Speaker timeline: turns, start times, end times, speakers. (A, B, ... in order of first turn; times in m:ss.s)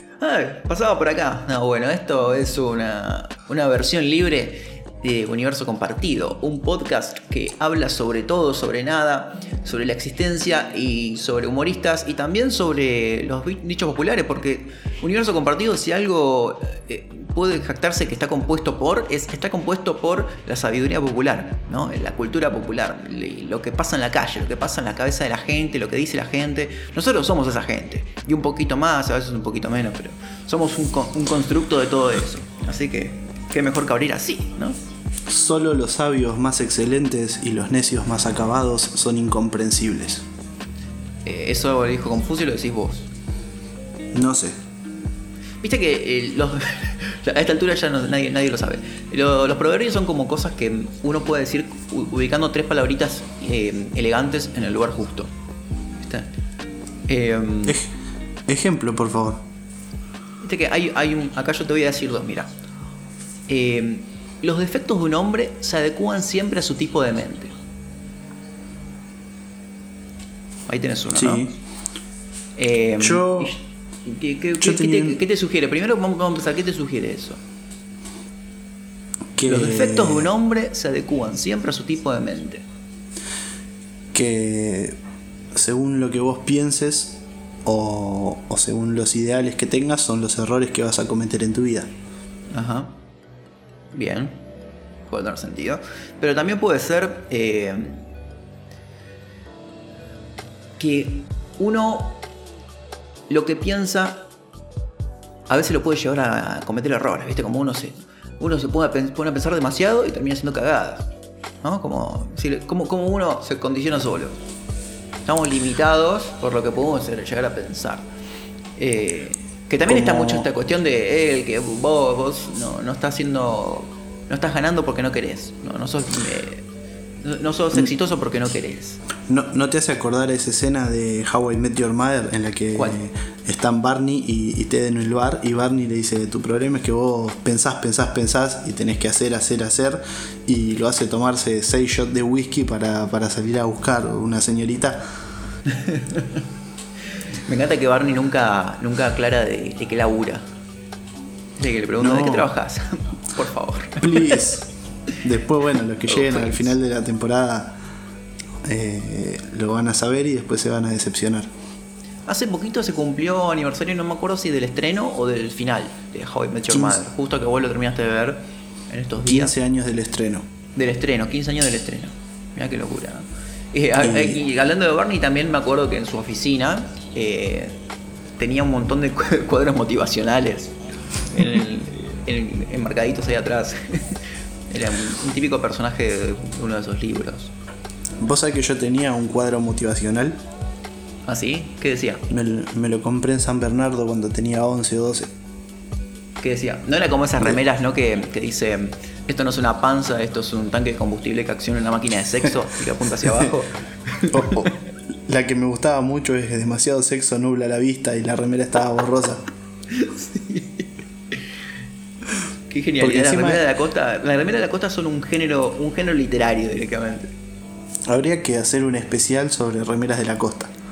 0:00.2-0:34.8 A
0:35.3-0:40.2 B
0:41.2-0:43.1 A
0:44.1-0:44.6 B
0:45.6-0:55.3 A
0:56.0-0:56.3 A
0:57.1-0:57.8 A
0:57.6-0:57.9 B
0:58.5-0:59.4 B
1:00.4-1:02.5 A
1:03.5-1:07.5 A
1:10.7-1:11.5 A
1:11.1-1:11.6 B
1:12.6-1:17.4 A
1:13.0-1:13.5 B
1:14.6-1:15.2 B
1:19.3-1:20.3 B
1:19.4-1:22.6 A
1:24.1-1:25.0 B
1:25.5-1:31.9 B
1:32.5-1:32.9 A
1:33.9-1:34.4 A
1:35.1-1:38.1 A
1:40.8-1:42.2 A
1:43.3-1:44.2 A
1:45.5-1:51.1 A
1:51.6-1:54.4 A
1:55.2-1:58.1 A
1:58.8-2:06.6 A
1:59.8-2:00.5 B
2:07.2-2:09.0 A
2:09.3-2:25.0 B
2:25.7-2:26.4 A
2:27.5-2:30.4 A
2:31.6-2:34.6 A
2:32.0-2:32.5 B
2:34.0-2:34.7 B
2:35.2-2:37.8 B
2:36.1-2:36.7 A
2:38.6-2:41.5 B
2:42.3-2:49.5 A
2:46.7-2:47.0 B
2:49.2-2:50.5 B
2:50.7-2:57.8 A
2:54.0-2:54.4 B
2:58.4-3:00.7 A
3:01.3-3:07.5 A
3:08.2-3:10.4 B
3:11.2-3:12.2 A
3:12.3-3:15.3 B
3:16.4-3:24.7 A
3:24.3-3:29.4 B
3:29.9-3:31.5 A
3:32.7-3:37.3 A
3:33.0-3:33.6 B
3:38.1-3:40.7 B